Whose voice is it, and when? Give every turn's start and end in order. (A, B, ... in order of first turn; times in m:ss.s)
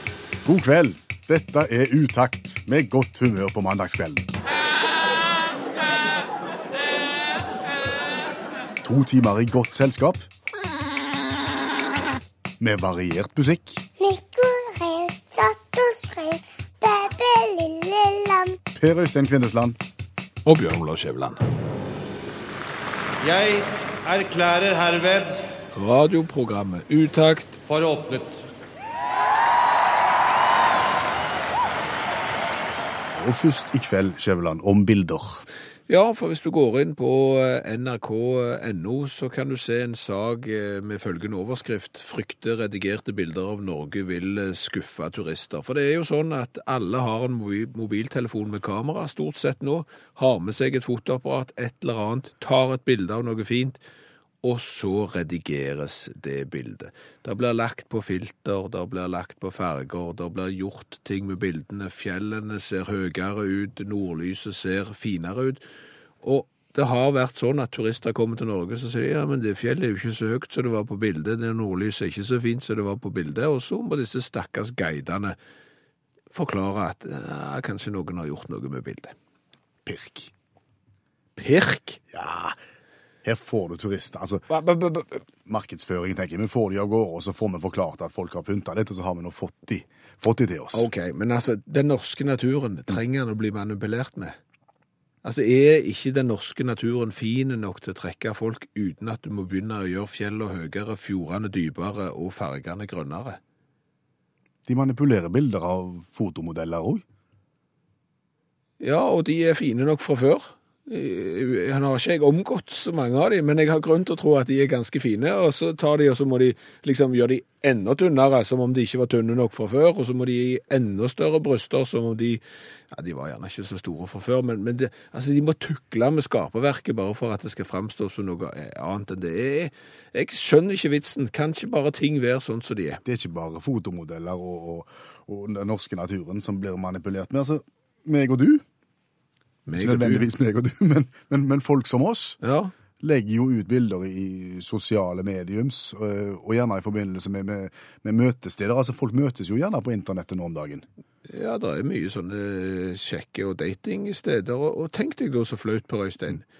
0:00.4-0:04.3 A
0:08.8-0:10.3 A
0:12.6-0:13.8 A
0:14.0-0:18.6 B
0:18.7-0:19.8 A
0:20.4-0:21.4 C
0:23.2-0:25.4 D
0:25.7-0:27.6 C
0:27.7-0:28.4 D
0:33.1-0:35.4 A
0:35.9-0:53.8 C
0:54.4-1:05.6 C
1:06.2-1:15.4 C
1:16.3-1:19.1 C
1:19.8-1:20.3 A
1:21.4-1:22.0 C
1:22.1-1:22.6 A
1:23.2-1:24.5 A
1:24.5-1:25.2 C
1:25.4-1:30.9 A
1:30.7-1:34.4 C
1:35.2-1:43.4 C
1:44.6-1:47.0 A
1:48.8-2:13.0 C
2:13.0-2:18.6 A
2:19.6-2:20.3 C
2:19.8-2:22.4 A
2:22.4-2:22.7 C
2:23.0-2:30.8 A
2:31.3-2:36.4 C